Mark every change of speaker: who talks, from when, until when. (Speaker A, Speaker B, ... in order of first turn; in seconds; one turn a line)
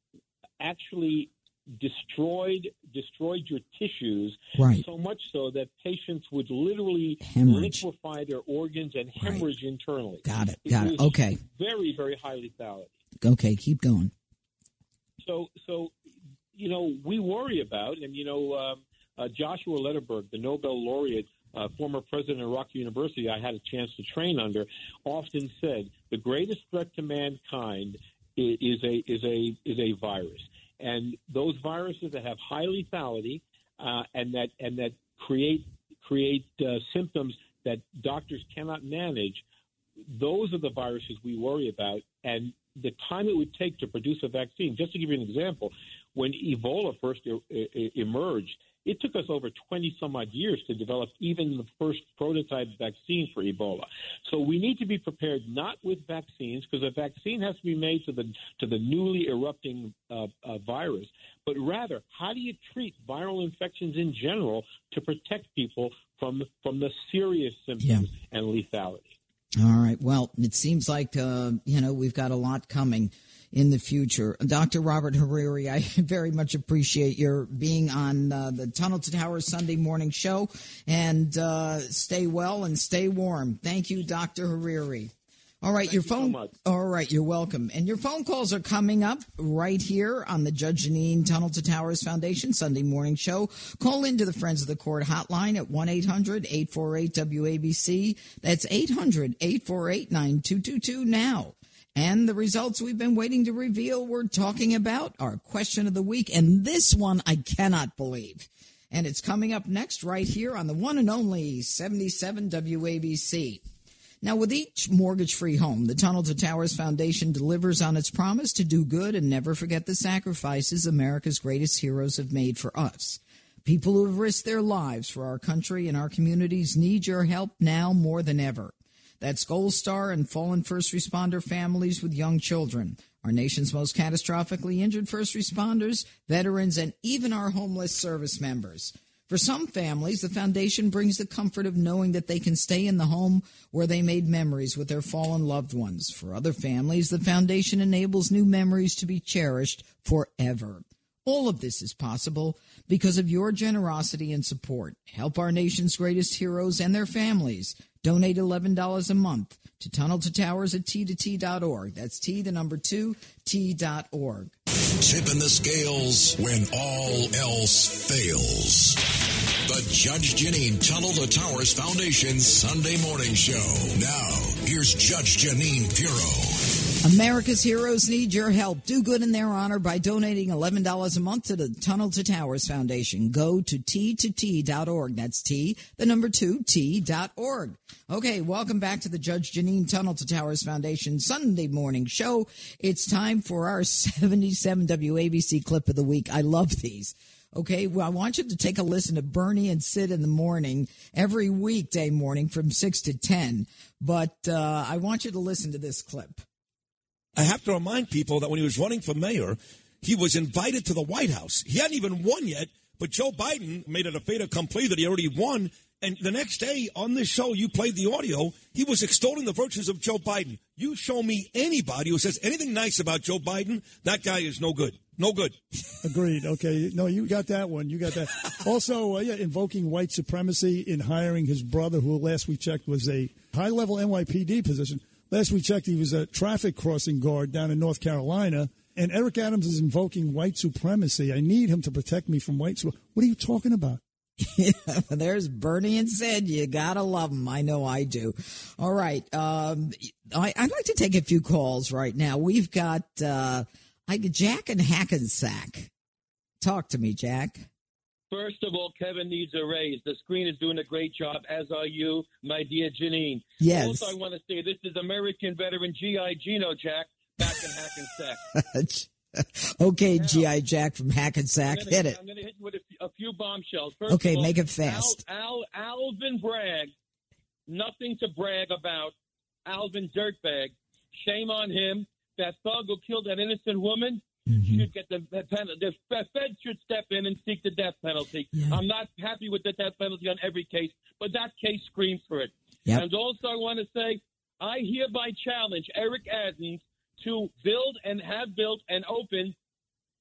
Speaker A: 0.6-12.9
Speaker B: 4.6-4.8
Speaker B: 7.2-7.8
Speaker B: 10.2-11.4
Speaker B: 13.2-14.1
Speaker A: 15.2-15.9
Speaker A: 16.5-39.4
Speaker A: 40.1-69.2
Speaker B: 67.8-68.1
Speaker B: 69.6-113.6
Speaker A: 85.8-86.5
Speaker B: 114.2-164.6
Speaker C: 165.0-169.1
Speaker C: 169.7-176.6
Speaker B: 177.0-206.4
Speaker D: 207.4-225.6
Speaker E: 226.0-244.0
Speaker B: 244.4-255.9
Speaker B: 256.6-257.7
Speaker F: 258.3-268.4
Speaker B: 263.6-264.1
Speaker B: 268.5-272.2
Speaker F: 270.1-270.5
Speaker F: 271.7-276.9
Speaker B: 274.1-275.2
Speaker F: 277.7-279.1
Speaker F: 279.7-299.6
Speaker B: 284.5-284.8